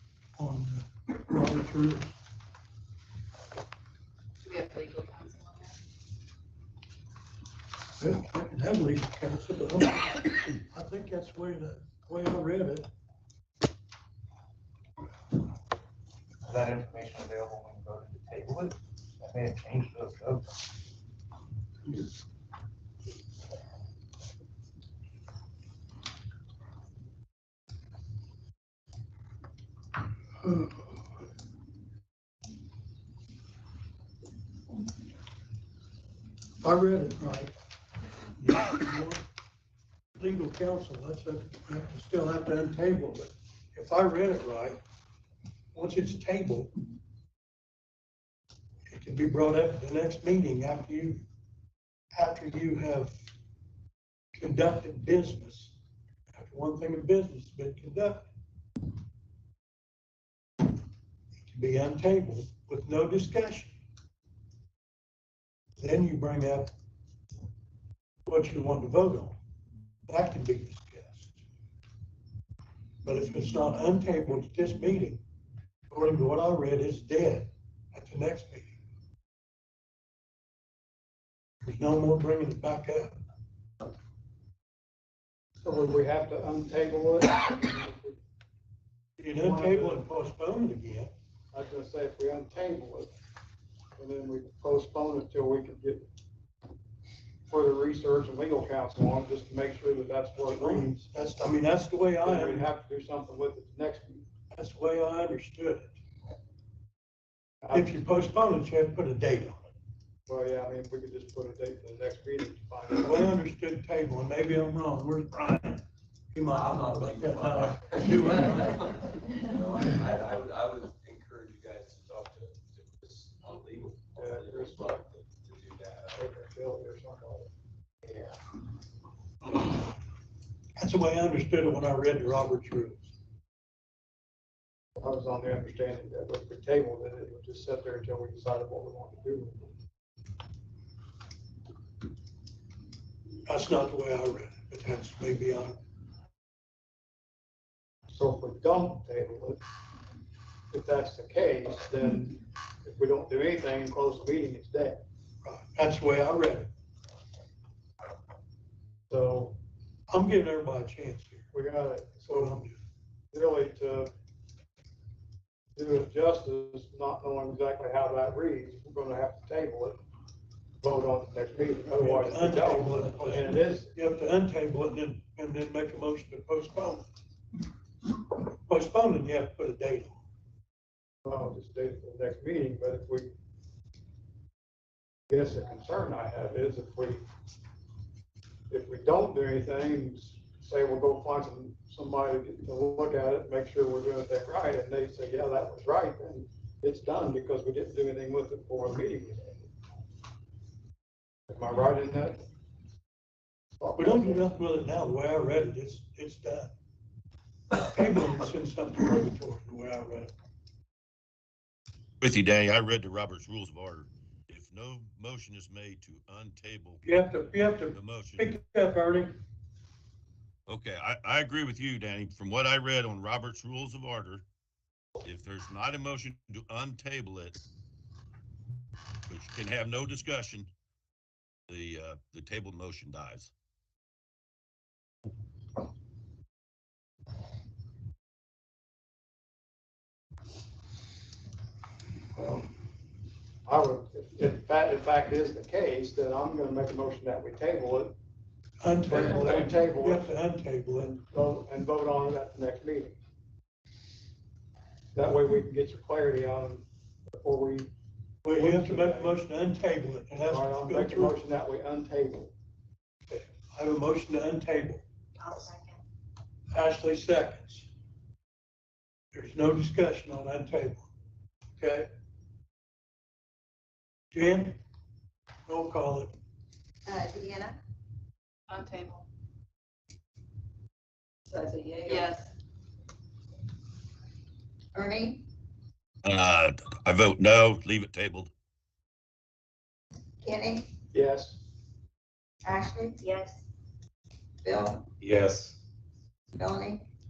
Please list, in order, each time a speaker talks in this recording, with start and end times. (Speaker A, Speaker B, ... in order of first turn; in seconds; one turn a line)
Speaker A: 0.3-2.2
Speaker B: 4.4-5.8
Speaker A: 8.0-12.9
Speaker C: 16.4-20.5
Speaker A: 36.6-37.5
Speaker A: 38.4-39.2
Speaker A: 40.1-44.8
Speaker A: 45.7-46.7
Speaker A: 48.9-51.2
Speaker A: 52.1-53.2
Speaker A: 54.3-55.7
Speaker A: 56.3-58.2
Speaker A: 61.4-63.7
Speaker A: 65.8-66.7
Speaker A: 68.2-69.4
Speaker A: 70.1-71.3
Speaker A: 73.0-75.2
Speaker A: 75.9-78.7
Speaker A: 81.6-83.2
Speaker D: 85.6-88.2
Speaker A: 89.2-91.1
Speaker D: 89.3-90.0
Speaker D: 91.5-93.1
Speaker D: 94.0-96.1
Speaker D: 97.5-101.0
Speaker A: 100.4-102.7
Speaker D: 102.2-104.2
Speaker A: 104.5-105.9
Speaker D: 107.6-107.9
Speaker A: 107.7-109.7
Speaker D: 110.3-113.1
Speaker A: 113.0-118.9
Speaker E: 116.5-126.2
Speaker D: 124.2-125.0
Speaker D: 126.1-127.5
Speaker A: 130.8-133.1
Speaker D: 135.0-139.7
Speaker A: 143.4-145.8
Speaker D: 148.1-149.6
Speaker D: 150.7-155.0
Speaker A: 155.4-156.7
Speaker D: 159.1-159.6
Speaker A: 160.1-161.5
Speaker D: 161.5-162.6
Speaker A: 162.2-162.8
Speaker D: 163.3-164.1
Speaker D: 165.8-170.0
Speaker D: 170.8-173.9
Speaker A: 171.9-177.1
Speaker A: 178.7-180.2
Speaker D: 181.2-183.3
Speaker D: 185.3-187.2
Speaker D: 188.7-199.5
Speaker D: 201.5-202.4
Speaker D: 203.8-204.4
Speaker A: 204.0-206.7
Speaker A: 207.8-210.3
Speaker F: 212.2-217.0
Speaker A: 217.0-219.4
Speaker F: 217.9-218.5
Speaker F: 220.7-224.4
Speaker F: 225.2-227.6
Speaker F: 229.3-230.7
Speaker F: 231.7-233.5
Speaker D: 243.6-248.2
Speaker A: 248.8-251.2
Speaker D: 249.0-250.3
Speaker D: 251.3-253.2
Speaker D: 255.1-257.9
Speaker A: 258.4-261.4
Speaker D: 258.5-259.4
Speaker D: 260.4-262.5
Speaker A: 263.3-265.0
Speaker A: 266.7-267.9
Speaker A: 269.3-271.1
Speaker A: 271.8-272.1
Speaker A: 274.3-274.8
Speaker A: 275.6-276.3
Speaker G: 277.1-277.8
Speaker B: 278.7-279.2
Speaker G: 281.5-282.3
Speaker B: 281.8-282.5
Speaker G: 284.9-285.4
Speaker F: 286.2-288.5
Speaker G: 290.4-290.9
Speaker D: 291.1-291.6
Speaker G: 292.6-293.4
Speaker G: 294.6-295.0
Speaker E: 295.2-295.8
Speaker G: 296.5-297.1